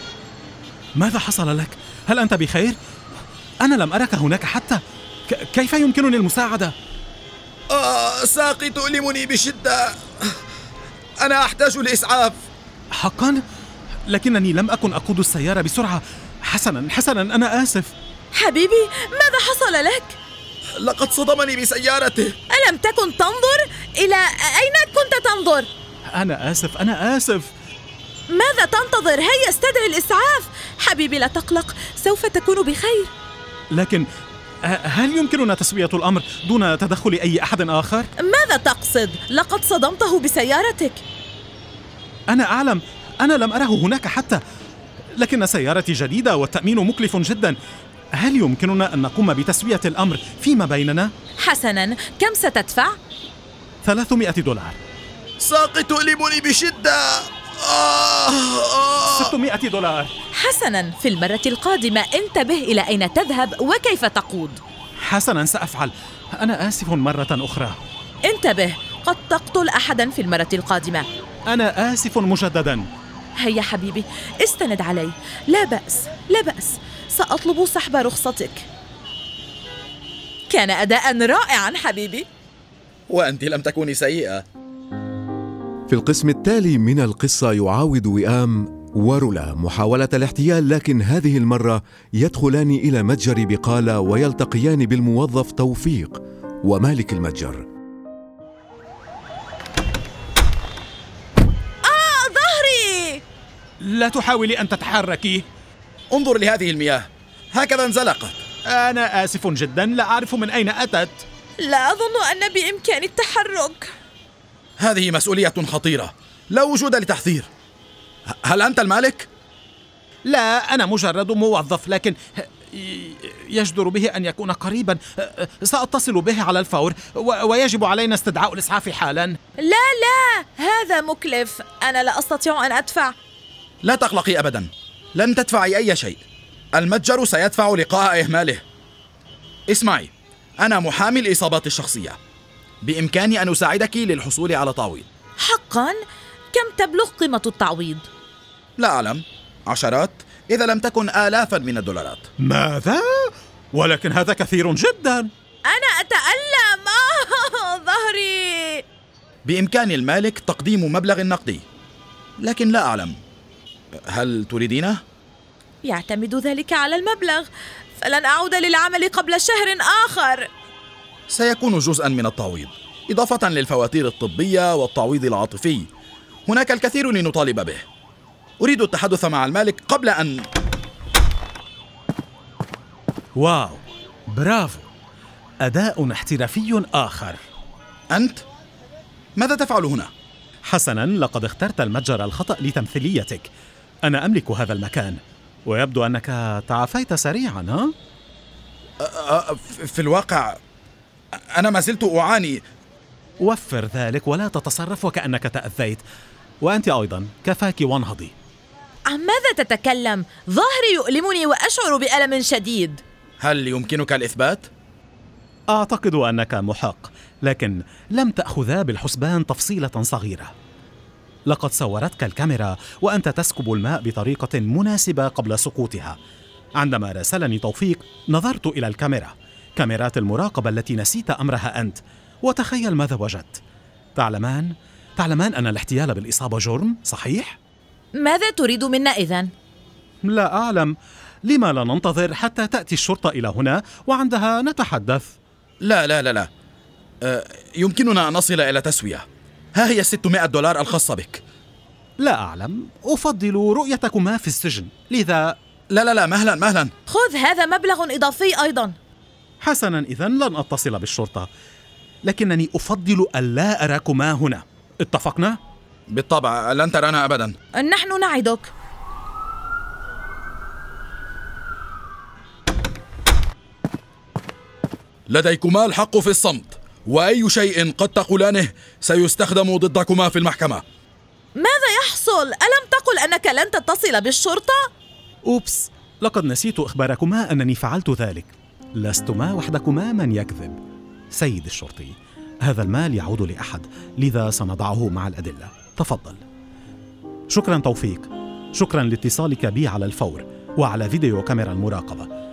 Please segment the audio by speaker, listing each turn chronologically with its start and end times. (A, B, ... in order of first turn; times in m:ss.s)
0:01.0-0:02.8 A
0:03.6-0:06.8 A
0:07.7-0:10.4 B
0:11.2-0:12.5 B
0:12.9-0:13.4 A
0:14.1-0:17.9 A
0:18.3-0:20.2 C
0:20.8-0:22.4 B
0:22.5-0:25.7 C
0:26.1-0:27.5 A
0:28.3-0:33.1 C
0:33.7-0:34.1 A
0:34.6-0:38.1 A
0:38.2-0:41.0 C
0:42.3-0:44.4 A
0:45.2-0:47.6 A
0:48.2-0:51.1 A
0:51.4-0:53.0 C
0:53.8-0:54.8 A
0:55.4-0:59.3 B
0:59.1-1:00.1 A
1:00.3-1:04.6 C
1:05.0-1:07.8 A
1:08.3-1:11.1 C
1:11.5-1:12.9 A
1:13.4-1:18.7 C
1:20.5-1:22.3 C
1:23.1-1:24.4 B
1:25.9-1:37.6 D
1:41.8-1:43.2 C
1:43.8-1:45.5 A
1:46.1-1:48.4 B
1:48.7-1:51.2 A
1:51.6-1:53.9 C
1:54.8-1:57.5 B
1:58.3-1:59.3 B
2:00.2-2:09.4 A
2:09.6-2:13.2 C
2:13.8-2:16.2 B
2:16.7-2:18.6 B
2:19.7-2:22.2 B
2:22.8-2:25.1 B
2:25.4-2:26.0 C
2:26.5-2:28.1 C
2:28.8-2:32.3 B
2:32.4-2:35.3 A
2:35.7-2:38.8 C
2:39.4-2:41.6 B
2:42.4-2:43.2 B
2:44.1-2:45.0 B
2:45.8-2:50.5 C
2:51.3-2:55.9 B
2:56.5-2:57.8 B
2:58.6-3:00.4 B
3:03.4-3:04.9 A
3:05.6-3:07.4 A
3:08.1-3:08.4 B
3:09.4-3:10.1 B
3:10.6-3:13.5 A
3:14.0-3:17.9 A
3:19.0-3:20.6 B
3:21.5-3:22.6 B
3:23.4-3:26.0 A
3:26.6-3:28.3 A
3:29.1-3:33.0 C
3:33.4-3:34.7 B
3:35.7-3:40.5 A
3:41.5-3:46.2 A
3:46.8-3:53.6 A
3:54.2-3:57.6 A
3:58.1-3:59.5 C
4:00.2-4:00.9 A
4:01.4-4:05.4 A
4:05.8-4:06.5 B
4:07.2-4:11.4 B
4:12.2-4:15.6 A
4:15.9-4:16.9 B
4:17.1-4:19.0 C
4:19.6-4:21.5 A
4:22.2-4:25.6 A
4:26.1-4:27.6 B
4:27.8-4:28.7 C
4:35.3-4:40.8 B
4:41.6-4:44.8 C
4:45.4-4:50.8 A
4:51.3-4:56.4 A
4:57.5-5:02.3 A